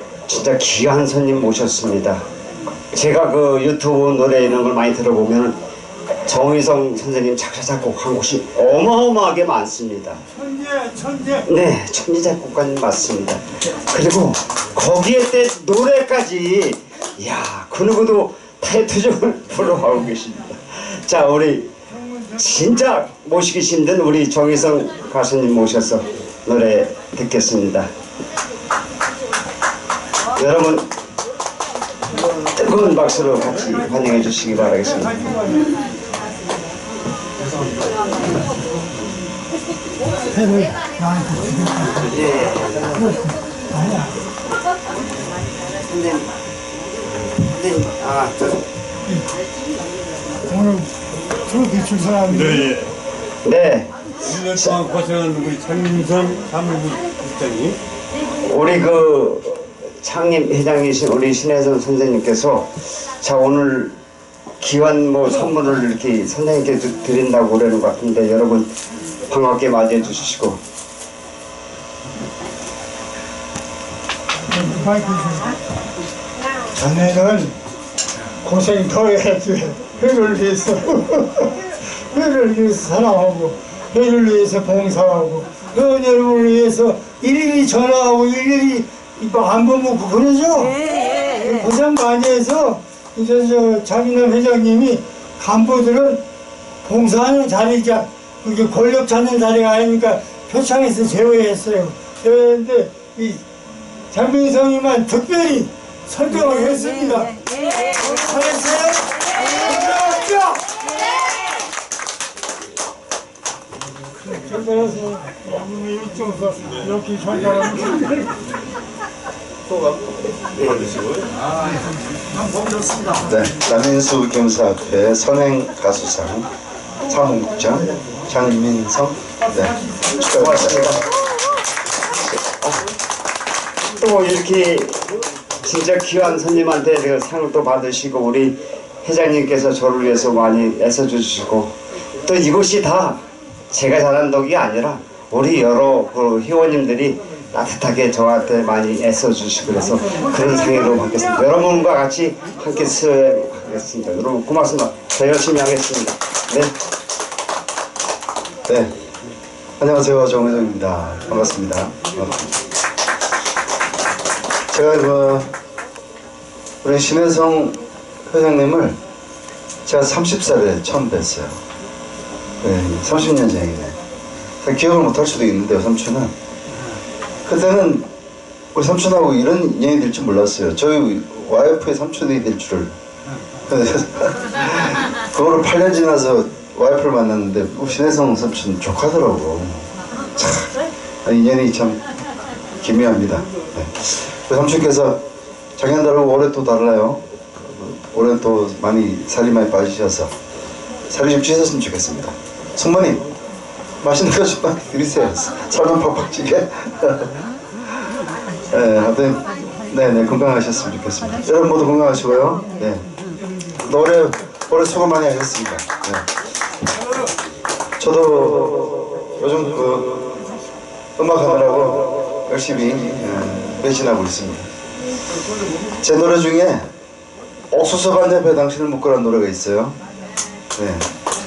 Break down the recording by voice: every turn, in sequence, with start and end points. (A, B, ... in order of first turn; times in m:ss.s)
0:00.3-0:02.2 A
0:02.9-0:05.6 A
0:06.3-0:10.2 A
0:10.4-0:11.4 B
0:11.5-0:21.7 A
0:22.3-0:27.9 A
0:30.3-0:30.9 A
0:32.5-0:35.5 A
0:40.3-0:42.1 B
0:42.1-0:43.0 A
0:43.7-0:44.1 B
0:45.8-0:46.3 A
0:47.4-0:48.6 A
0:50.5-0:52.8 B
0:52.3-0:52.9 C
0:53.4-0:53.9 A
0:54.2-0:57.8 C
0:54.5-0:54.8 A
0:58.4-1:04.0 A
1:04.6-1:08.7 A
1:09.3-1:10.6 A
1:14.5-1:15.6 B
1:16.7-1:17.6 B
1:18.4-1:36.2 B
1:36.8-1:43.4 B
1:44.1-1:50.8 B
1:54.3-1:58.2 B
2:00.6-2:01.0 A
2:03.2-2:06.5 D
2:07.0-2:11.0 D
2:10.4-2:11.0 A
2:14.0-2:15.1 A
2:15.6-2:21.7 A
2:22.2-2:36.7 A
2:38.7-2:38.9 D
2:39.8-2:42.5 D
2:44.7-2:45.5 D
2:46.8-2:49.0 D
2:49.8-2:51.6 D
2:52.6-2:54.0 D
2:54.6-2:56.3 D
2:57.4-2:58.1 D
2:58.7-3:02.9 D
3:03.7-3:10.7 D
3:11.2-3:12.0 D
3:12.8-3:15.2 D
3:15.8-3:20.3 D
3:21.1-3:23.2 D
3:24.0-3:27.3 D
3:28.7-3:33.0 D
3:33.8-3:36.3 D
3:38.0-3:40.3 D
3:41.2-3:44.7 D
3:46.0-3:46.9 D
3:47.7-3:50.0 D
3:50.7-3:51.1 D